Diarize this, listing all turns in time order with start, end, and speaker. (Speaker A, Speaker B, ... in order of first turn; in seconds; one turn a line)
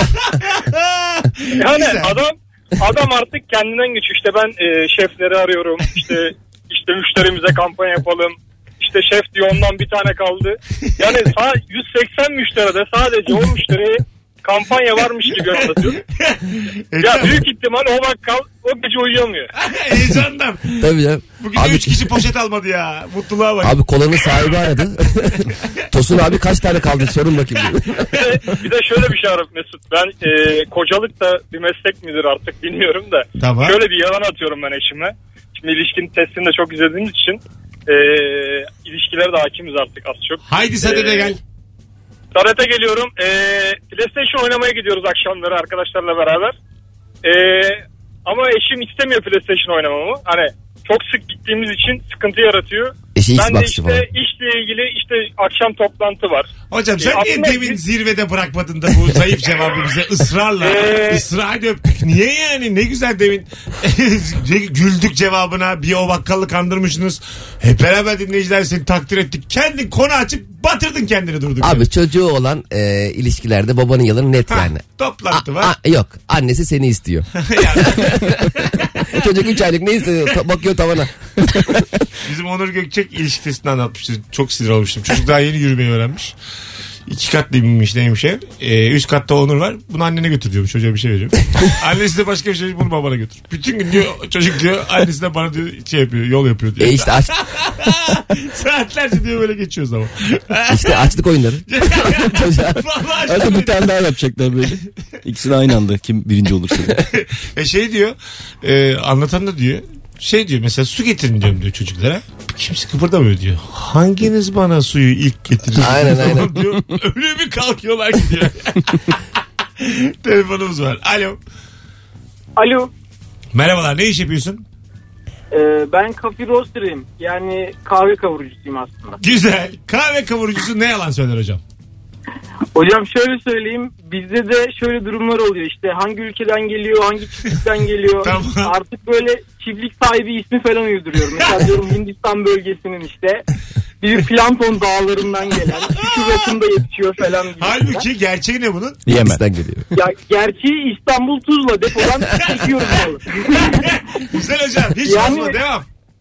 Speaker A: 0.2-2.1
Speaker B: 1.5-16.0
Speaker A: 16.1-17.4
Speaker B: 17.0-19.5
Speaker A: 19.5-24.7
Speaker C: 20.8-22.1
Speaker C: 23.6-28.1
Speaker B: 28.1-41.3
Speaker A: 33.4-33.8
Speaker A: 40.5-41.4
Speaker B: 42.3-46.5
Speaker B: 47.2-57.8
Speaker C: 53.1-54.0
Speaker A: 56.7-71.9
Speaker B: 60.6-61.2
Speaker C: 71.6-81.7
Speaker A: 74.5-75.7
Speaker A: 77.4-79.0
Speaker A: 82.2-86.3
Speaker A: 87.1-101.1
Speaker C: 96.8-97.3
Speaker C: 100.7-102.8
Speaker A: 101.7-103.9
Speaker D: 103.3-107.0
Speaker C: 103.4-103.7
Speaker A: 107.1-119.0
Speaker C: 115.8-116.6
Speaker A: 119.8-121.4
Speaker E: 122.5-122.9
Speaker A: 123.5-124.6
Speaker E: 125.5-129.2
Speaker A: 129.2-131.6
Speaker E: 132.7-143.4
Speaker A: 138.2-138.7
Speaker E: 144.0-148.0
Speaker A: 146.0-146.3
Speaker A: 147.6-149.0
Speaker D: 149.1-149.4
Speaker C: 149.1-149.8
Speaker E: 149.9-153.8
Speaker A: 153.6-155.8
Speaker E: 155.0-155.6